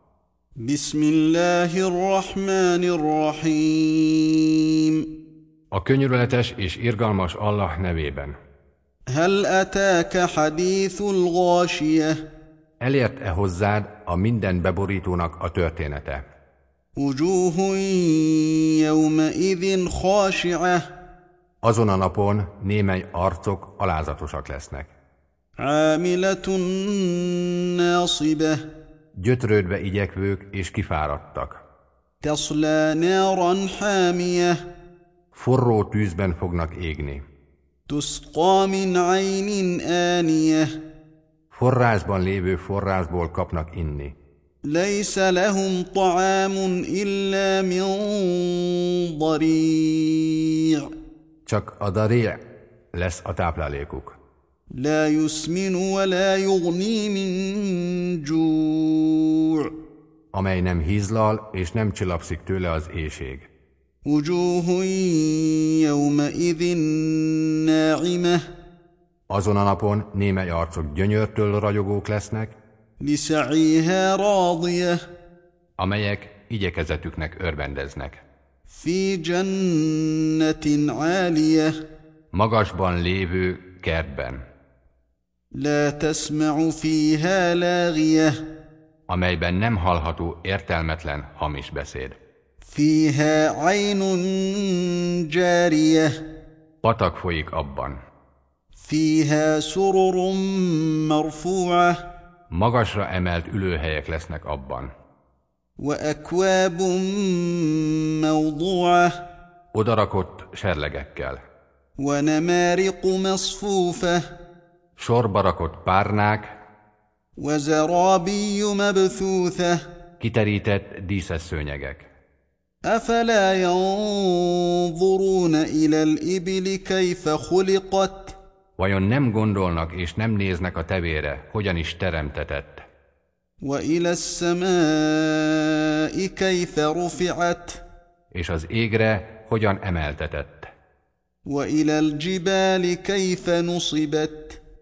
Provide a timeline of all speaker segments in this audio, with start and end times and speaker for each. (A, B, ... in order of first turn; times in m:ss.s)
0:00.6-0:05.0 A
0:05.7-0:08.4 B
0:09.1-0:12.2 A
0:12.8-0:16.2 B
0:17.0-0:20.8 A
0:21.6-0:24.9 B
0:25.6-0:28.6 A
0:29.2-0:31.6 B
0:32.2-0:34.6 A
0:35.3-0:37.2 B
0:37.9-0:40.7 A
0:41.5-0:44.2 B
0:44.6-0:50.9 A
0:51.5-0:52.4 B
0:52.9-0:54.2 B
0:54.8-0:59.7 A
1:00.3-1:03.5 B
1:04.1-1:08.4 A
1:09.3-1:12.6 B
1:13.0-1:15.0 A
1:15.8-1:18.2 B
1:18.7-1:21.7 A
1:22.3-1:24.4 B
1:25.6-1:28.4 A
1:29.1-1:32.2 B
1:32.7-1:36.1 A
1:36.8-1:38.0 B
1:38.8-1:42.0 A
1:42.5-1:44.9 B
1:45.8-1:49.1 A
1:49.7-1:51.4 B
1:52.0-1:54.2 A
1:55.0-1:56.5 B
1:57.4-1:59.8 A
2:00.2-2:02.0 B
2:02.9-2:08.4 A
2:08.8-2:12.8 B
2:13.6-2:17.8 A
2:18.3-2:20.7 B
2:21.5-2:24.6 A